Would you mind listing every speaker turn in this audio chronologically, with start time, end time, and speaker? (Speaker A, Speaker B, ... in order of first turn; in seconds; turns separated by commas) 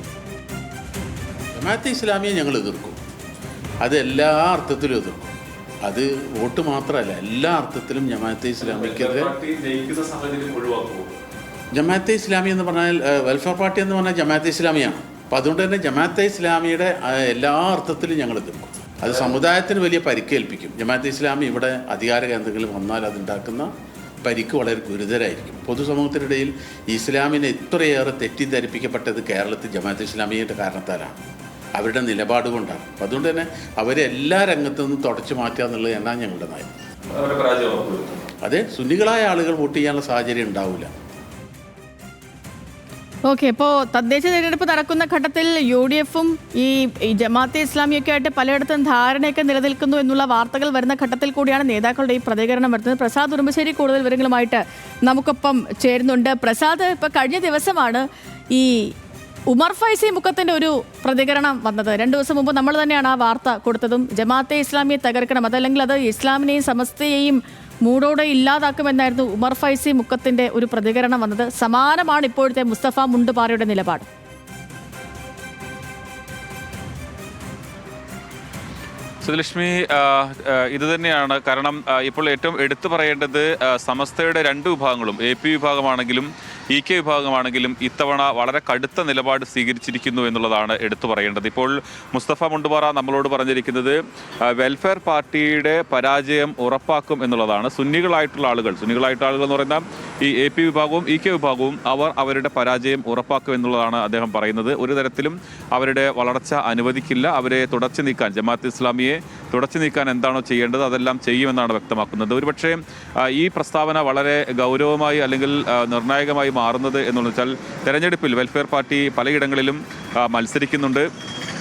Speaker A: 1.6-3.0, Speaker A: 3.8-5.3, Speaker A: 5.8-9.3, Speaker B: 8.6-11.1, Speaker A: 11.7-23.7, Speaker A: 24.2-31.2, Speaker A: 31.8-36.7, Speaker B: 37.1-38.2, Speaker A: 38.4-40.9, Speaker C: 43.2-58.9, Speaker C: 59.5-74.1, Speaker B: 79.2-121.1